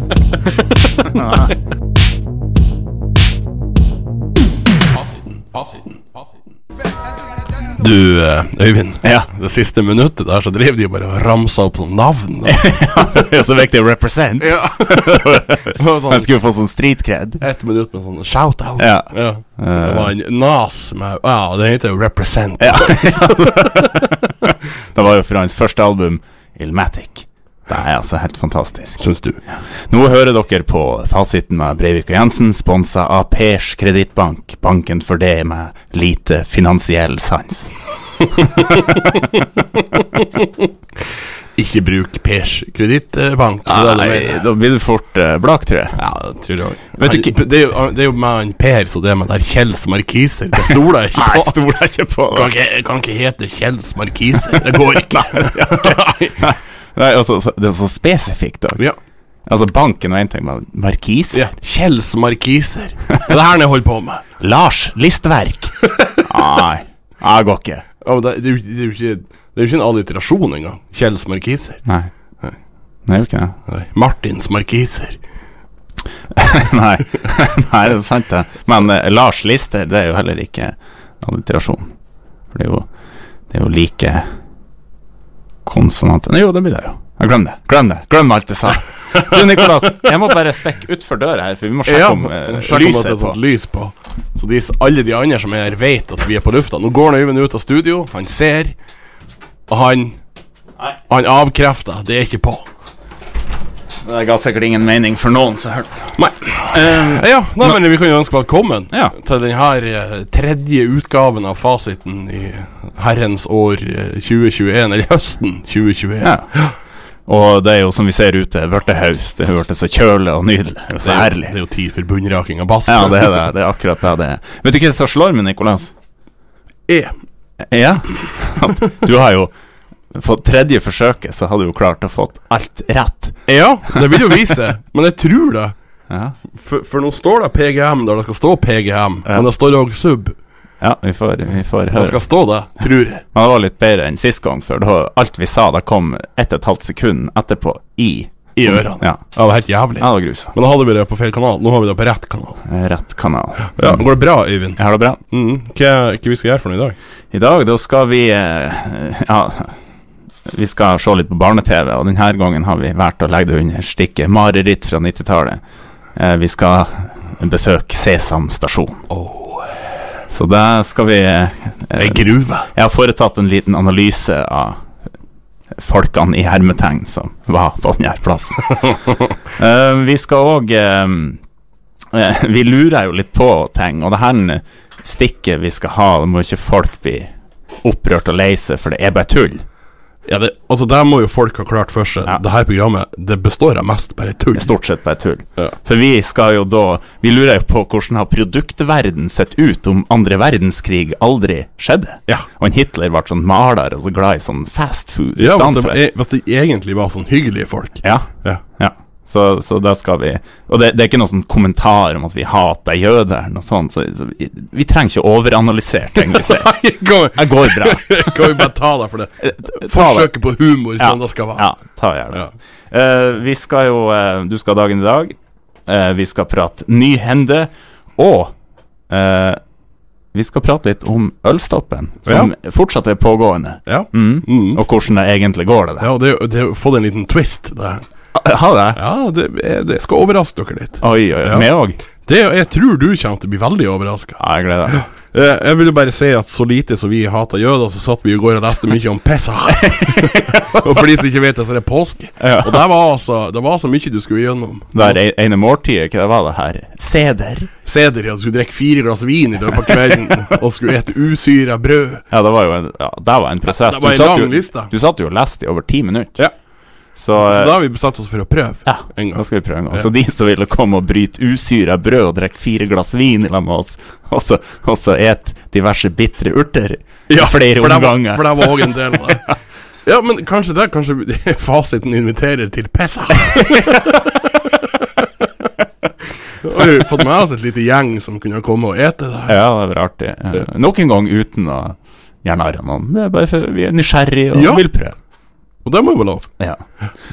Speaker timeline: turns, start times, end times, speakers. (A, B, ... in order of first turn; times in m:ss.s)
0:01.0-0:01.5 A
0:04.9-0:06.1 B
0:07.8-0:13.3 B
0:09.0-0:09.3 A
0:12.4-0:17.4 A
0:14.4-0:16.3 B
0:17.4-0:24.0 B
0:18.8-0:20.1 A
0:22.6-0:29.0 A
0:29.0-0:29.4 B
0:29.5-0:37.7 A
0:38.3-0:39.4 A
0:40.0-0:40.6 B
0:41.6-0:44.4 B
0:43.7-0:46.0 A
0:46.0-0:51.6 B
0:47.0-0:47.3 A
0:50.7-0:52.5 A
0:52.3-0:56.4 B
0:54.5-0:58.8 A
0:59.5-1:01.4 A
1:01.3-1:04.2 B
1:04.4-1:07.8 A
1:05.8-1:06.3 B
1:08.0-1:11.8 B
1:11.8-1:12.1 A
1:13.1-1:13.6 A
1:13.7-1:15.2 B
1:16.3-1:21.9 A
1:22.5-1:22.9 A
1:23.5-1:24.3 A
1:25.6-1:33.4 A
1:31.8-1:38.8 B
1:39.7-1:40.2 B
1:41.1-1:42.7 B
1:44.0-1:46.1 A
1:46.2-1:56.6 B
1:46.7-1:47.7 A
1:56.2-1:56.5 A
1:57.3-2:01.5 A
2:01.0-2:03.5 B
2:02.9-2:05.9 A
2:06.9-2:07.1 B
2:07.7-2:09.5 A
2:10.1-2:13.4 A
2:13.5-2:15.7 B
2:16.1-2:16.3 A
2:16.5-2:20.4 B
2:20.8-2:22.2 A
2:21.9-2:23.2 B
2:23.3-2:29.2 A
2:28.6-2:32.6 B
2:30.0-2:30.5 A
2:32.6-2:34.0 A
2:33.7-2:34.8 B
2:34.8-2:35.2 A
2:35.3-2:37.0 B
2:37.3-2:39.7 A
2:40.5-2:45.6 A
2:46.2-2:49.1 A
2:49.1-2:49.7 B
2:50.3-2:54.8 A
2:52.0-2:52.7 B
2:55.8-2:59.0 A
2:59.6-3:01.4 A
3:02.1-3:07.3 A
3:07.8-3:09.6 A
3:10.2-3:14.7 B
3:14.5-3:26.0 A
3:25.4-3:28.6 B
3:28.0-3:36.7 A
3:36.2-3:41.6 B
3:37.3-3:38.7 A
3:39.4-3:40.3 A
3:41.0-3:45.4 A
3:45.9-3:48.5 A
3:49.1-3:49.6 A
3:50.3-3:56.1 A
3:52.2-3:52.5 B
3:53.9-3:54.8 B
3:56.0-3:58.0 B
3:58.3-3:59.0 A
3:59.0-4:01.7 B
4:01.0-4:02.0 A
4:02.2-4:15.2 B
4:04.4-4:05.0 A
4:09.7-4:11.0 A
4:12.4-4:12.8 A
4:14.9-4:17.7 A
4:17.8-4:22.2 B
4:22.3-4:26.4 A
4:23.7-4:24.9 B
4:27.2-4:27.8 A
4:27.4-4:30.1 B
4:28.8-4:38.9 A
4:37.3-4:39.4 B
4:40.0-4:44.4 B
4:46.6-4:49.6 B
4:49.5-4:55.2 A
4:54.5-4:54.8 B
4:55.8-4:56.5 B